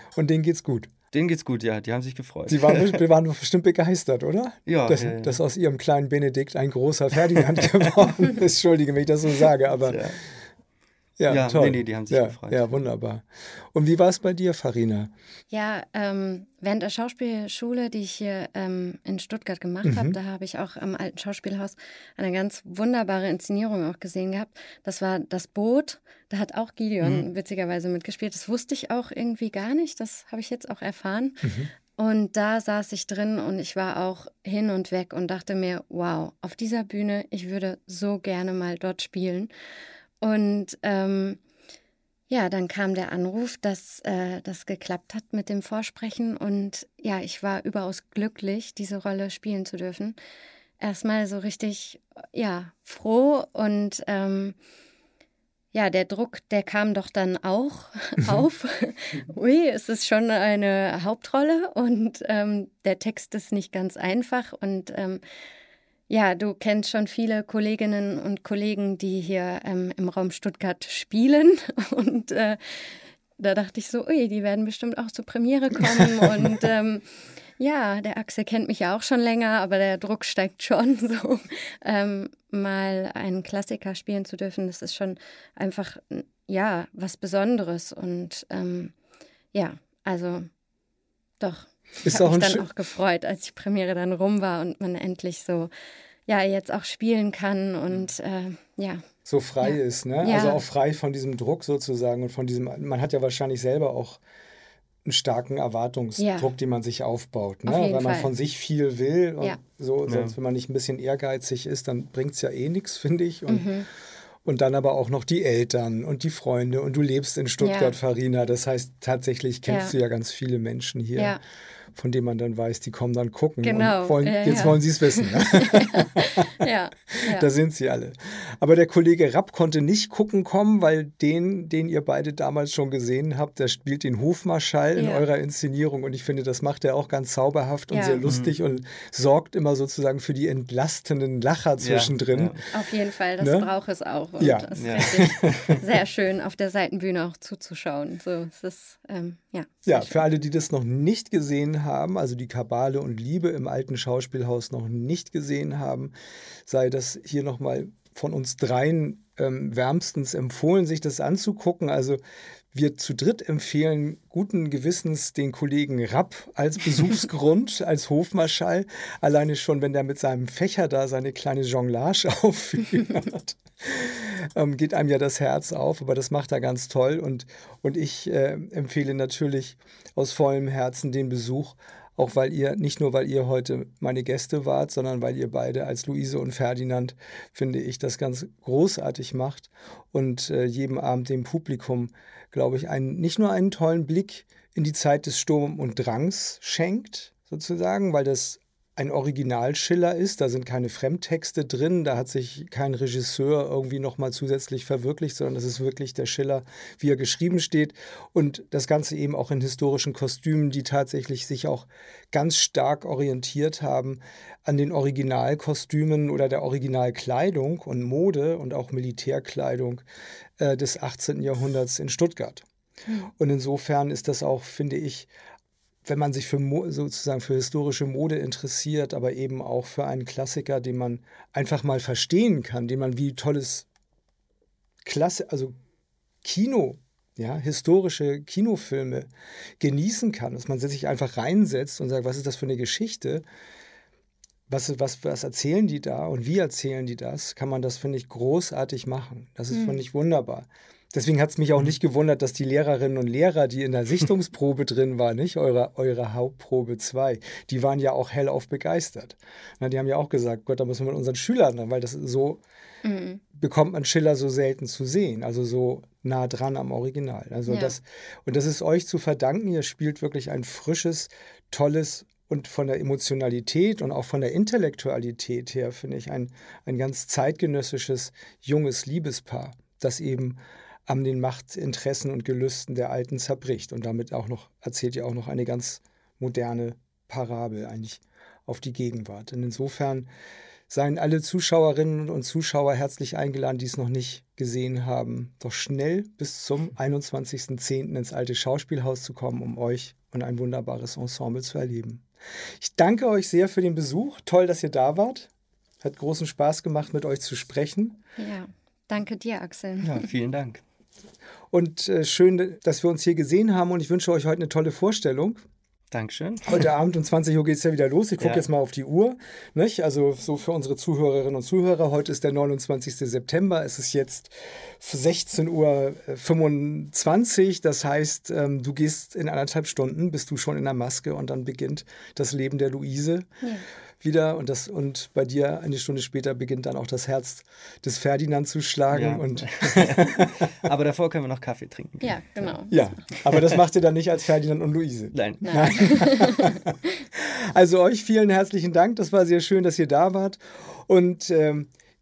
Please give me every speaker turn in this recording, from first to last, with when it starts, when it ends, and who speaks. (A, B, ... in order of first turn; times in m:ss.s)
0:00.2-0:00.9 A
0:01.1-0:03.0 B
0:02.5-0:10.0 A
0:04.6-0:05.4 B
0:07.3-0:07.9 B
0:09.8-0:10.2 B
0:11.2-0:15.1 A
0:11.3-0:12.7 B
0:15.5-0:31.4 C
0:19.8-0:20.2 A
0:27.0-0:27.2 B
0:31.4-0:31.7 A
0:32.0-0:39.5 C
0:40.2-0:41.4 C
0:42.3-0:50.2 C
0:50.8-0:54.6 C
0:55.7-1:05.2 C
1:06.1-1:28.9 C
1:29.5-1:30.5 C
1:31.4-1:35.7 C
1:32.0-1:32.6 A
1:36.3-1:39.0 C
1:39.2-1:44.2 A
1:39.6-1:40.6 C
1:45.0-1:53.7 A
1:46.2-1:46.5 C
1:47.6-1:48.3 C
1:50.1-1:50.3 B
1:53.5-1:53.9 C
1:54.4-2:01.4 A
1:57.6-1:57.9 C
1:59.7-1:59.9 C
2:01.2-2:01.4 C
2:02.0-2:06.5 A
2:03.6-2:07.5 C
2:07.1-2:22.7 A
2:15.0-2:15.2 C
2:17.9-2:18.2 C
2:18.2-2:18.6 B
2:21.8-2:22.6 B
2:22.7-2:30.2 C
2:23.4-2:23.7 A
2:24.4-2:25.7 A
2:24.8-2:25.8 B
2:29.8-2:36.1 A
2:36.6-2:42.2 A
2:42.7-3:40.0 A
3:40.6-3:42.6 A
3:43.4-3:45.3 A
3:46.0-3:53.9 A
3:55.0-3:55.8 A
3:56.4-4:03.4 A
4:04.7-4:22.6 A
4:09.7-4:10.0 C
4:23.0-4:23.4 C
4:23.5-4:50.3 A
4:27.7-4:27.9 C
4:50.9-5:02.2 A
5:02.8-5:05.5 A
5:06.0-5:08.2 A
5:08.4-5:10.3 C
5:10.0-5:10.8 B
5:11.7-5:15.6 A
5:16.1-5:16.9 B
5:16.7-5:33.5 A
5:33.6-5:33.8 C
5:34.2-5:40.9 A
5:39.1-5:42.7 B
5:42.2-5:43.2 C
5:42.9-5:51.9 A
5:43.4-5:43.8 B
5:45.3-5:46.1 B
5:45.6-5:46.8 C